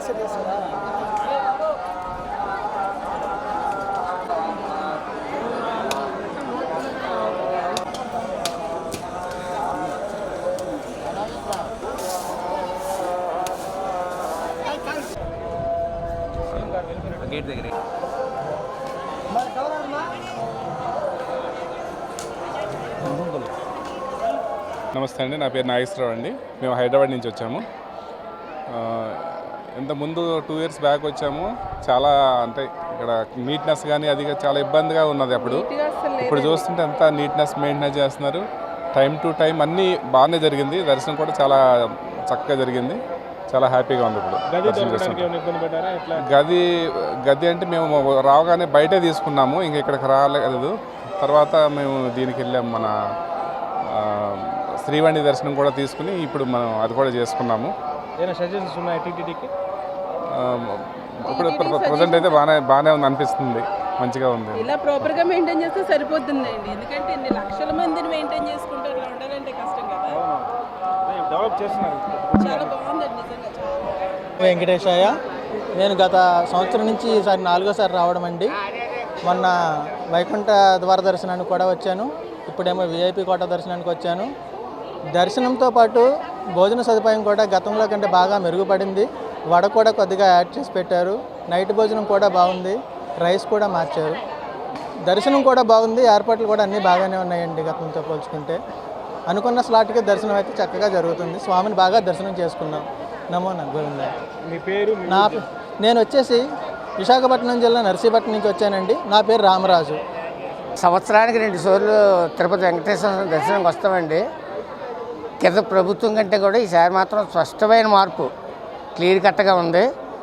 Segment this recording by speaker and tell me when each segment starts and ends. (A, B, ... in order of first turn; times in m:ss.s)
0:24.9-0:27.6 A
0:28.7-0:35.7 A
0:35.4-0:36.6 B
0:36.2-0:38.4 A
0:39.0-0:41.6 A
0:42.3-0:43.0 A
0:43.5-0:45.3 A
0:44.5-0:46.2 C
0:46.2-0:46.6 A
0:47.3-0:52.9 A
0:53.9-0:57.7 A
0:58.2-0:59.5 C
1:00.4-1:05.1 A
1:01.3-1:02.3 B
1:04.6-1:10.2 B
1:10.1-1:10.5 C
1:11.1-1:12.7 C
1:12.4-1:14.0 B
1:14.4-1:15.1 D
1:15.8-1:18.5 D
1:19.2-1:24.3 D
1:25.2-1:26.0 D
1:26.6-1:34.2 D
1:35.1-1:38.6 D
1:39.3-1:44.1 D
1:44.4-1:45.4 C
1:45.0-1:46.4 D
1:47.0-1:50.0 D
1:50.8-1:54.2 E
1:55.4-1:58.3 E
1:59.0-1:59.8 E